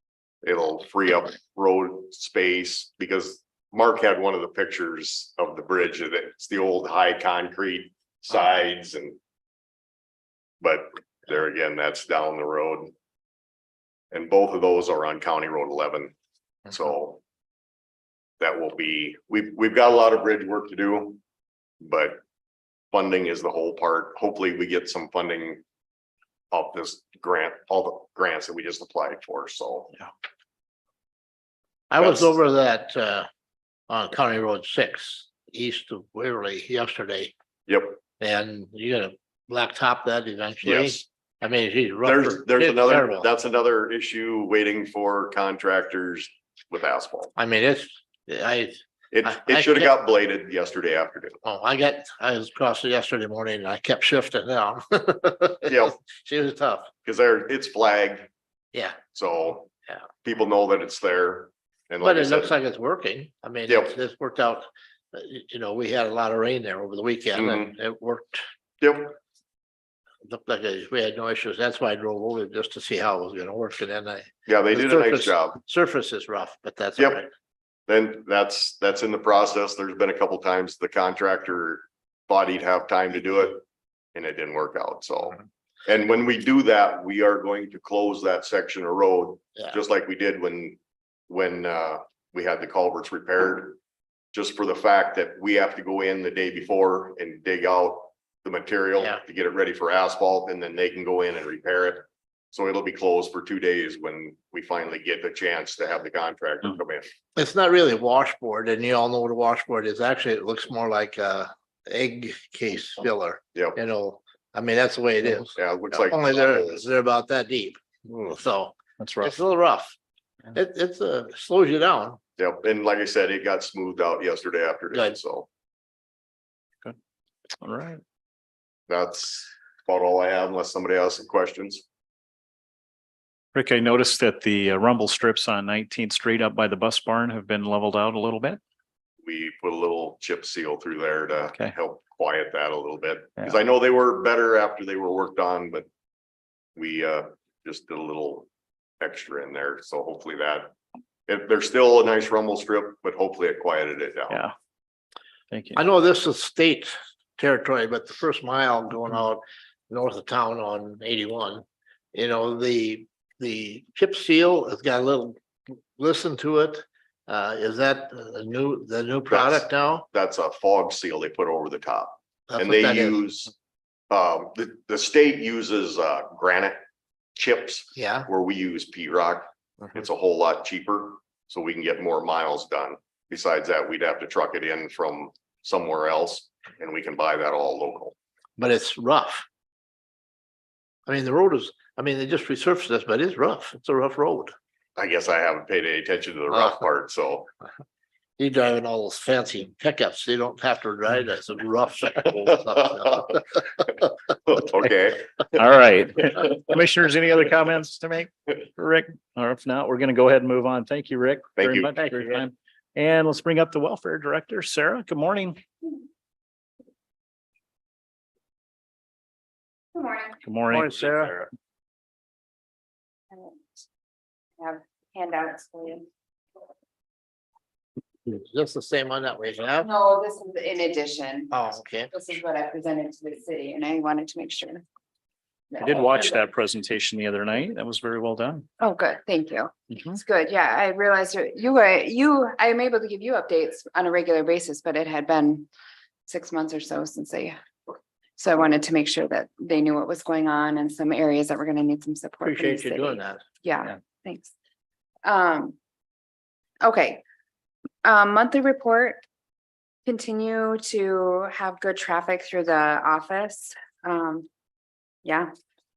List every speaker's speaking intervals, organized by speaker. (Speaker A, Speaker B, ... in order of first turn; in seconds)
Speaker A: 0.4-9.2, 10.6-12.9, 14.1-16.1, 16.7-17.2, 18.4-21.2, 21.8-22.2, 22.9-25.6, 26.5-29.9, 32.0-32.3, 37.7-38.0, 40.6-41.0, 42.0-47.3, 49.1-51.4, 55.6-56.0, 57.0-58.3, 59.1-59.7, 60.2-62.5, 63.7-63.9, 67.3-67.7, 68.8-69.2, 74.5-75.6, 77.0-77.2, 77.9-90.8, 91.3-93.8, 94.3-107.1, 115.5-116.8, 122.4-125.5, 128.9-131.8, 139.2-145.9, 146.8-148.5, 149.0-150.7, 151.3-154.4, 169.3-173.5, 174.1-176.8, 177.4-188.2, 195.0-197.5, 204.5-205.6, 211.6-211.9, 221.0-221.5
Speaker B: 31.9-33.3, 33.9-37.3, 38.2-43.3, 47.4-49.9, 51.4-56.9, 62.0-68.4, 70.3-77.3, 107.4-120.0, 120.5-122.2, 155.8-170.1, 172.5-173.2, 178.0-178.3, 188.6-189.4, 191.1-194.5, 198.4-203.4, 220.7-221.3, 228.2-229.9, 231.5-232.1, 252.4-253.4
Speaker C: 119.0-119.3, 127.6-128.0, 133.5-138.6, 155.5-155.8, 205.6-215.6, 220.4-221.0, 235.8-238.7, 239.9-240.2
Speaker D: 219.9-220.4, 223.3-223.6, 224.6-226.1, 229.8-234.8, 235.7-236.4, 238.8-245.7, 246.3-247.6, 248.4-254.5, 255.2-255.8, 256.8-257.2, 258.0-259.2, 260.1-264.5, 265.2-265.5